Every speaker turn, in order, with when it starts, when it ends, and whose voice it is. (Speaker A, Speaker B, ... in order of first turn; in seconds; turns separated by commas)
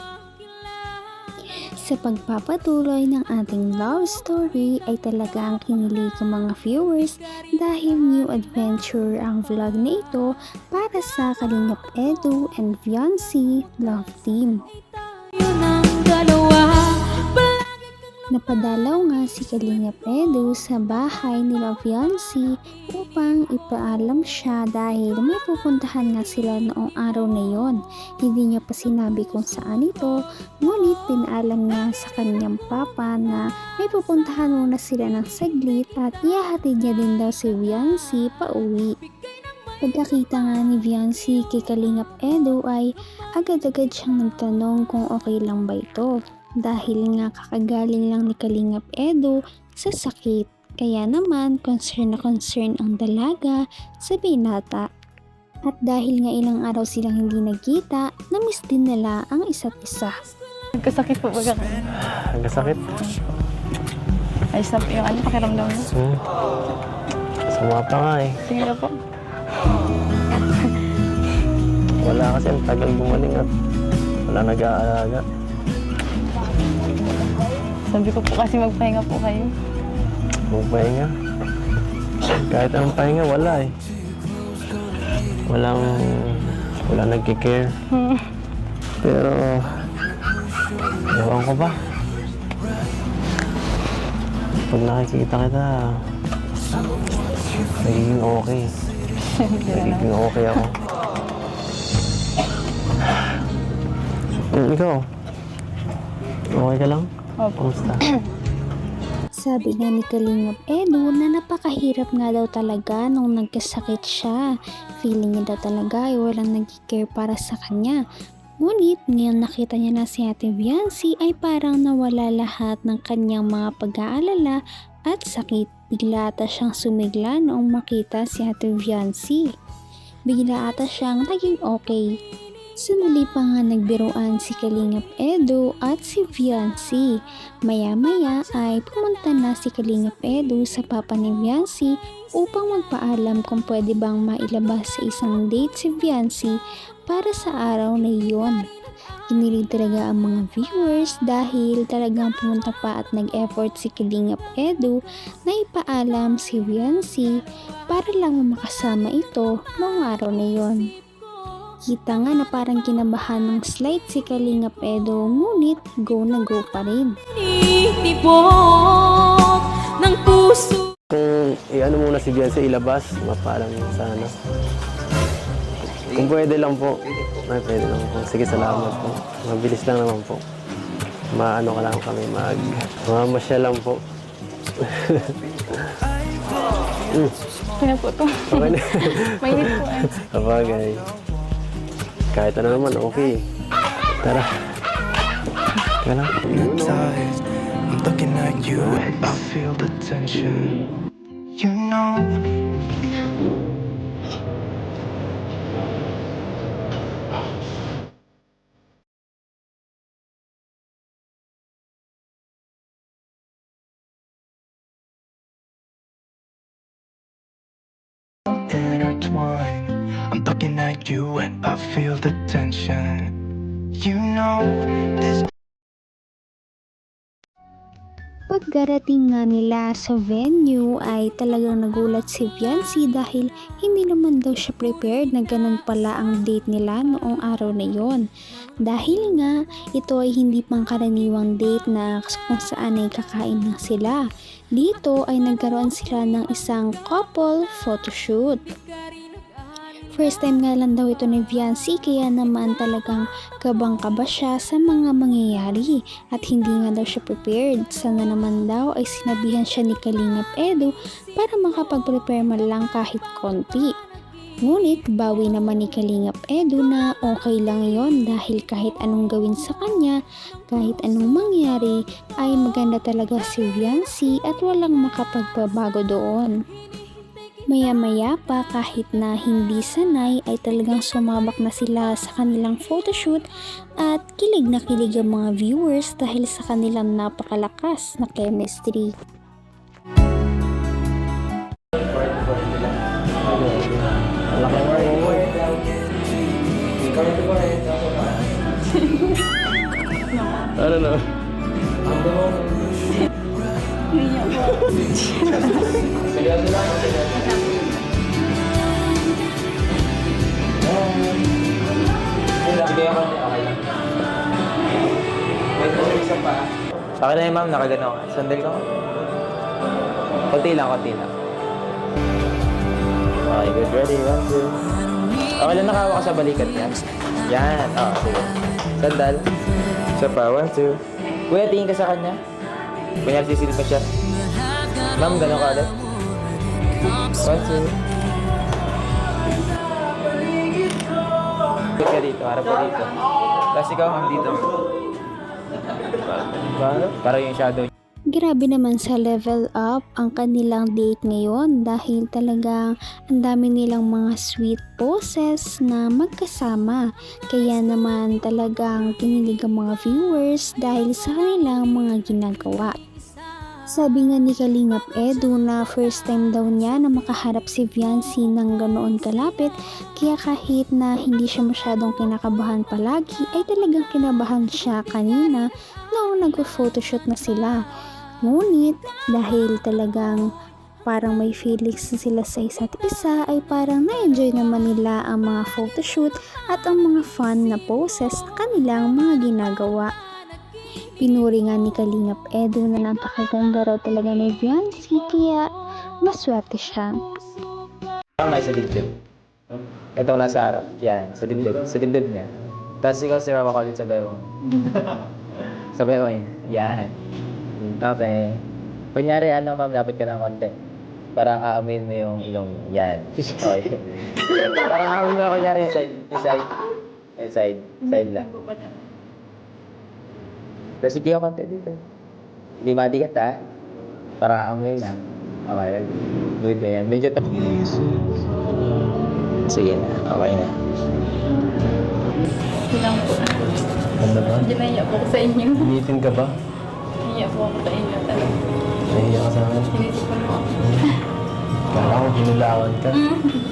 Speaker A: 1.8-14.6, Speaker B: 15.4-17.2, Speaker A: 18.3-39.0, Speaker A: 39.8-54.9, Speaker A: 55.6-60.1, Speaker B: 60.8-61.9, Speaker C: 61.9-62.8, Speaker B: 64.5-65.9, Speaker C: 65.8-66.2, Speaker C: 67.5-68.4, Speaker B: 68.4-69.0, Speaker C: 72.0-73.5, Speaker C: 74.2-75.2, Speaker B: 77.9-79.5, Speaker C: 80.5-81.1, Speaker C: 82.5-83.7, Speaker C: 85.5-87.7, Speaker B: 88.0-88.2, Speaker C: 89.0-89.7, Speaker C: 91.1-91.8, Speaker C: 94.7-95.9, Speaker C: 97.8-98.7, Speaker B: 99.3-100.1, Speaker C: 99.7-100.7, Speaker C: 104.5-105.0, Speaker C: 106.5-108.0, Speaker B: 107.4-107.9, Speaker A: 109.4-118.0, Speaker A: 118.6-129.4, Speaker A: 130.3-132.1, Speaker A: 132.8-137.1, Speaker A: 137.7-146.6, Speaker A: 147.1-148.6, Speaker A: 149.3-157.3, Speaker A: 157.9-160.8, Speaker A: 161.9-167.1, Speaker B: 167.4-170.9, Speaker C: 171.1-174.3, Speaker C: 176.1-180.4, Speaker C: 181.3-184.0, Speaker C: 184.8-185.8, Speaker C: 187.1-187.4, Speaker B: 187.8-190.2, Speaker C: 188.5-191.0, Speaker C: 192.3-193.4, Speaker C: 194.2-194.5, Speaker C: 196.0-196.8, Speaker D: 196.4-200.8, Speaker D: 201.6-202.4, Speaker D: 218.7-223.3, Speaker D: 224.0-225.4, Speaker A: 228.5-238.2, Speaker A: 238.8-244.2, Speaker A: 244.8-248.6, Speaker A: 250.2-263.9, Speaker A: 264.6-270.2, Speaker A: 270.7-276.5, Speaker A: 277.7-283.4, Speaker A: 284.0-289.1, Speaker E: 291.9-293.0, Speaker C: 293.4-295.5, Speaker E: 294.5-295.8, Speaker E: 297.0-298.4, Speaker B: 298.9-299.4, Speaker B: 300.3-300.7, Speaker C: 300.7-301.3, Speaker E: 302.0-302.9, Speaker B: 304.1-306.1, Speaker E: 306.2-307.5, Speaker E: 310.8-311.4, Speaker E: 312.6-313.8, Speaker E: 315.7-318.8, Speaker E: 320.5-321.3, Speaker E: 323.5-324.8, Speaker E: 325.6-329.5, Speaker E: 330.1-332.4, Speaker E: 333.2-334.1, Speaker E: 335.1-335.9, Speaker E: 337.2-338.0, Speaker E: 341.9-343.2, Speaker E: 343.7-344.7, Speaker E: 346.5-347.9, Speaker A: 348.3-357.0, Speaker A: 357.5-363.0, Speaker A: 363.9-377.8, Speaker A: 378.4-380.4, Speaker A: 381.1-390.1, Speaker A: 391.2-395.7, Speaker A: 396.2-397.2, Speaker E: 398.4-399.1, Speaker E: 400.1-402.5, Speaker E: 403.0-405.2, Speaker E: 405.9-407.1, Speaker E: 407.8-408.6, Speaker E: 409.1-410.7, Speaker E: 411.3-416.7, Speaker E: 417.4-418.5, Speaker E: 421.0-422.0, Speaker E: 422.8-423.6, Speaker E: 424.4-427.6, Speaker D: 427.7-428.1, Speaker E: 429.7-430.7, Speaker B: 432.9-433.6, Speaker C: 434.2-434.7, Speaker B: 434.6-435.9, Speaker C: 435.7-436.6, Speaker B: 437.2-438.5, Speaker C: 439.1-440.0, Speaker B: 439.9-440.8, Speaker C: 440.8-441.2, Speaker C: 441.9-443.2, Speaker B: 443.1-443.6